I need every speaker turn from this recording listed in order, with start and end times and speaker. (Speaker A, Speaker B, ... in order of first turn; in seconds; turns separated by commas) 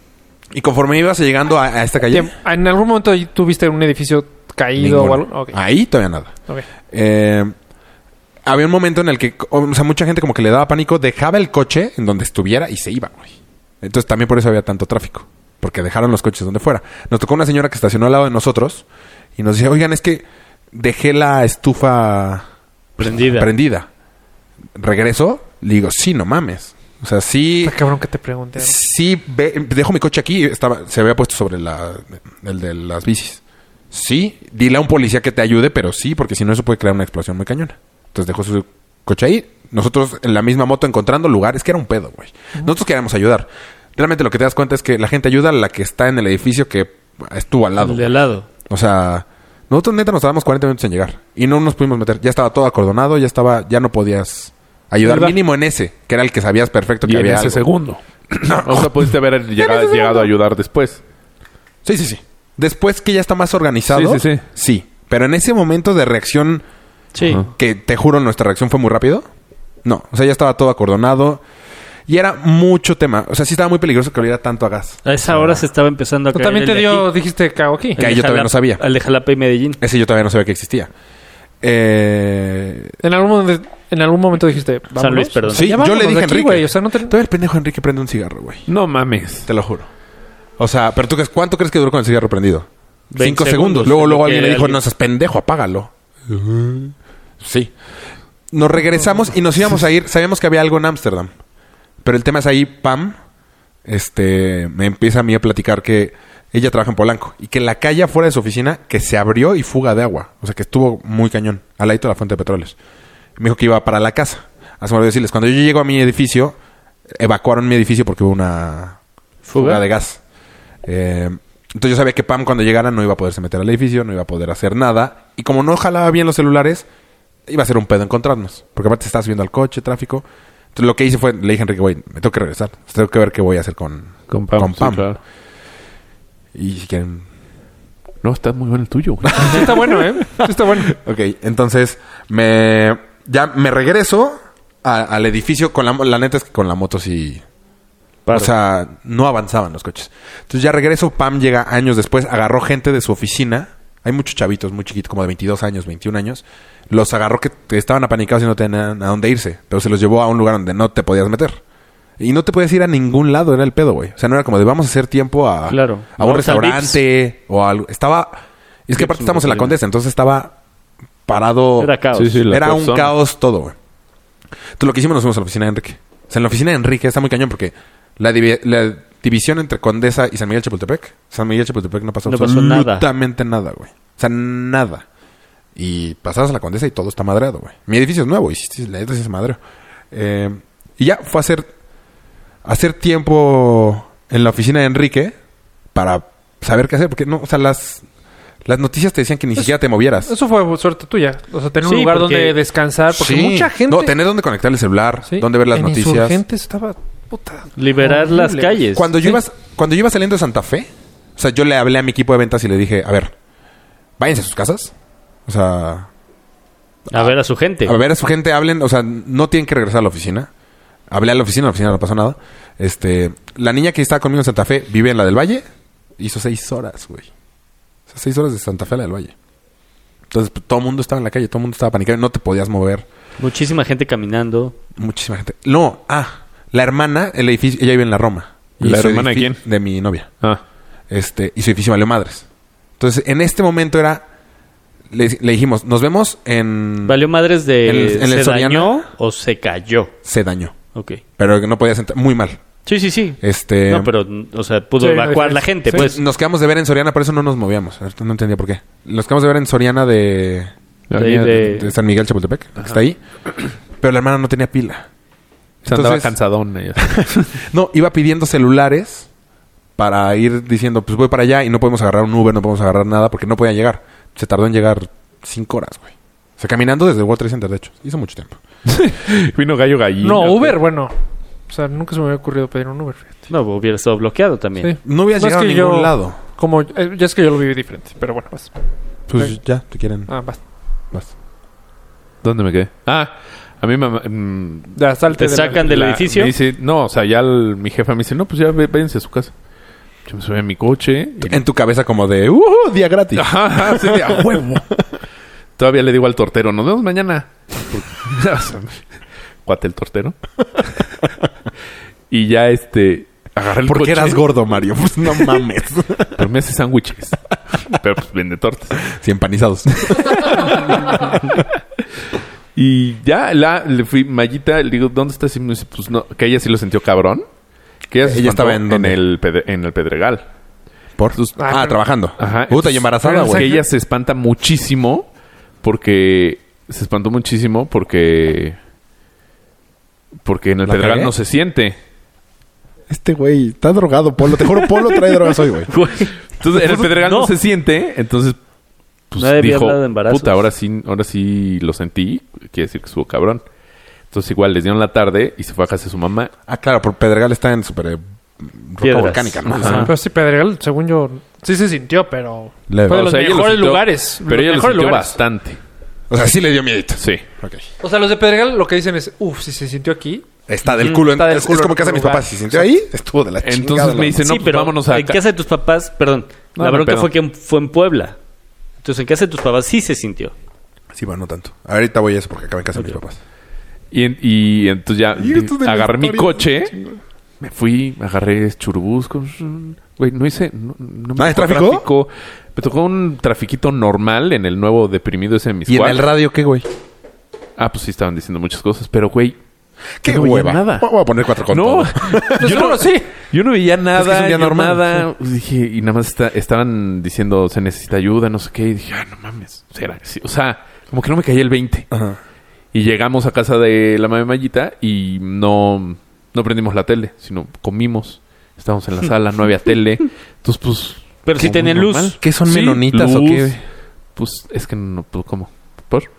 Speaker A: 0.5-2.3, Speaker B: 2.1-5.6, Speaker A: 4.8-6.3, Speaker A: 6.9-7.5, Speaker A: 8.5-18.9, Speaker A: 19.4-22.4, Speaker C: 23.0-23.5, Speaker A: 23.0-23.9, Speaker A: 24.8-27.8, Speaker B: 27.6-28.8, Speaker A: 28.6-48.1, Speaker C: 47.8-48.5, Speaker A: 48.6-57.6, Speaker D: 57.0-61.0, Speaker A: 58.5-59.1, Speaker A: 61.8-66.6, Speaker D: 63.9-64.4, Speaker C: 67.1-67.5, Speaker A: 67.5-69.3, Speaker A: 69.8-71.4, Speaker A: 72.1-75.6, Speaker C: 75.0-77.1, Speaker B: 76.3-78.0, Speaker C: 78.0-79.8, Speaker A: 78.0-78.8, Speaker A: 79.8-80.9, Speaker A: 81.6-83.0, Speaker B: 83.0-87.1, Speaker C: 85.0-85.7, Speaker A: 85.5-88.7, Speaker D: 88.7-89.5, Speaker A: 89.5-89.9, Speaker A: 90.6-97.7, Speaker C: 93.1-94.8, Speaker A: 98.5-101.3, Speaker A: 102.0-103.2, Speaker A: 103.8-112.8, Speaker A: 113.4-116.6, Speaker A: 117.1-119.0, Speaker C: 119.5-119.8, Speaker A: 119.5-120.2, Speaker A: 120.8-126.9, Speaker A: 127.5-135.1, Speaker D: 134.3-135.2, Speaker A: 136.5-137.3, Speaker D: 138.2-139.7, Speaker A: 139.2-147.4, Speaker B: 139.3-140.9, Speaker C: 148.3-148.5, Speaker A: 148.3-161.6, Speaker A: 162.2-170.5, Speaker C: 165.7-167.0, Speaker C: 168.9-169.8, Speaker A: 171.3-171.9, Speaker C: 171.8-172.4, Speaker D: 172.1-173.1, Speaker A: 172.5-173.8, Speaker A: 174.8-185.1, Speaker C: 182.3-183.1, Speaker A: 185.8-189.6, Speaker A: 190.1-191.7, Speaker A: 192.6-195.3, Speaker A: 195.9-198.1, Speaker A: 198.6-200.3, Speaker B: 200.2-204.1, Speaker C: 201.8-202.6, Speaker A: 203.1-206.4, Speaker B: 205.3-209.4, Speaker C: 207.8-209.1, Speaker A: 208.9-213.3, Speaker A: 214.2-214.9, Speaker A: 215.5-216.1, Speaker A: 217.1-220.5, Speaker C: 217.1-218.0, Speaker A: 221.1-225.7, Speaker A: 226.2-227.3, Speaker A: 228.1-229.3, Speaker A: 230.3-233.1, Speaker C: 233.4-234.8, Speaker A: 235.0-240.3, Speaker D: 238.8-239.6, Speaker A: 241.1-242.4, Speaker A: 243.0-244.2, Speaker A: 245.1-247.2, Speaker C: 247.0-250.1, Speaker A: 247.8-249.0, Speaker A: 250.2-250.8, Speaker C: 250.9-251.2, Speaker A: 251.4-252.6, Speaker C: 252.9-256.2, Speaker A: 253.4-254.1, Speaker B: 255.0-256.0, Speaker A: 255.9-260.7, Speaker D: 261.1-261.6, Speaker C: 261.1-261.9, Speaker A: 261.4-263.2, Speaker A: 264.0-265.1, Speaker A: 265.8-266.4, Speaker D: 265.9-267.6, Speaker A: 267.0-269.3, Speaker A: 270.0-278.6, Speaker D: 278.9-280.8, Speaker B: 280.2-281.1, Speaker B: 281.7-283.4, Speaker C: 283.5-284.9, Speaker B: 284.8-288.7, Speaker A: 285.0-286.4, Speaker A: 289.3-290.3, Speaker B: 290.3-290.6, Speaker D: 292.4-295.0, Speaker B: 294.9-296.1, Speaker C: 295.4-296.5, Speaker D: 295.5-299.5, Speaker D: 300.3-301.6, Speaker A: 301.4-304.8, Speaker D: 303.4-304.9, Speaker D: 305.8-309.0, Speaker D: 309.6-311.1, Speaker D: 312.3-314.4, Speaker A: 313.8-316.4, Speaker D: 316.4-319.1, Speaker A: 319.1-321.4, Speaker D: 320.2-321.7, Speaker D: 322.8-327.5, Speaker D: 328.1-330.4, Speaker A: 328.2-329.2, Speaker A: 331.2-333.7, Speaker D: 331.4-331.8, Speaker B: 331.6-332.0, Speaker D: 332.4-335.3, Speaker B: 333.2-333.8, Speaker D: 335.8-338.8, Speaker D: 340.4-342.0, Speaker A: 340.9-341.3, Speaker A: 343.1-345.9, Speaker C: 345.9-347.5, Speaker D: 346.6-348.6, Speaker D: 349.3-353.6, Speaker C: 349.4-350.6, Speaker D: 354.3-356.5, Speaker A: 356.7-360.1, Speaker C: 359.0-360.1, Speaker D: 359.7-360.1, Speaker B: 359.9-365.4, Speaker A: 362.9-363.3, Speaker D: 363.1-365.8, Speaker A: 366.3-367.8, Speaker D: 367.2-367.4, Speaker B: 368.0-370.4, Speaker A: 370.7-374.4, Speaker B: 371.0-372.9, Speaker D: 373.6-375.4, Speaker C: 374.4-378.4, Speaker D: 376.8-377.3, Speaker C: 379.0-380.5, Speaker A: 381.1-383.4, Speaker D: 384.1-386.9, Speaker A: 385.4-387.2, Speaker D: 387.6-396.2, Speaker A: 391.4-392.1, Speaker A: 395.9-396.9, Speaker D: 397.8-399.6, Speaker A: 400.2-402.9, Speaker D: 400.2-401.1, Speaker D: 401.7-412.1, Speaker B: 402.6-403.3, Speaker A: 404.1-405.2, Speaker A: 412.1-412.4, Speaker D: 412.9-423.8, Speaker C: 421.4-422.4, Speaker A: 422.4-423.8, Speaker D: 424.4-426.3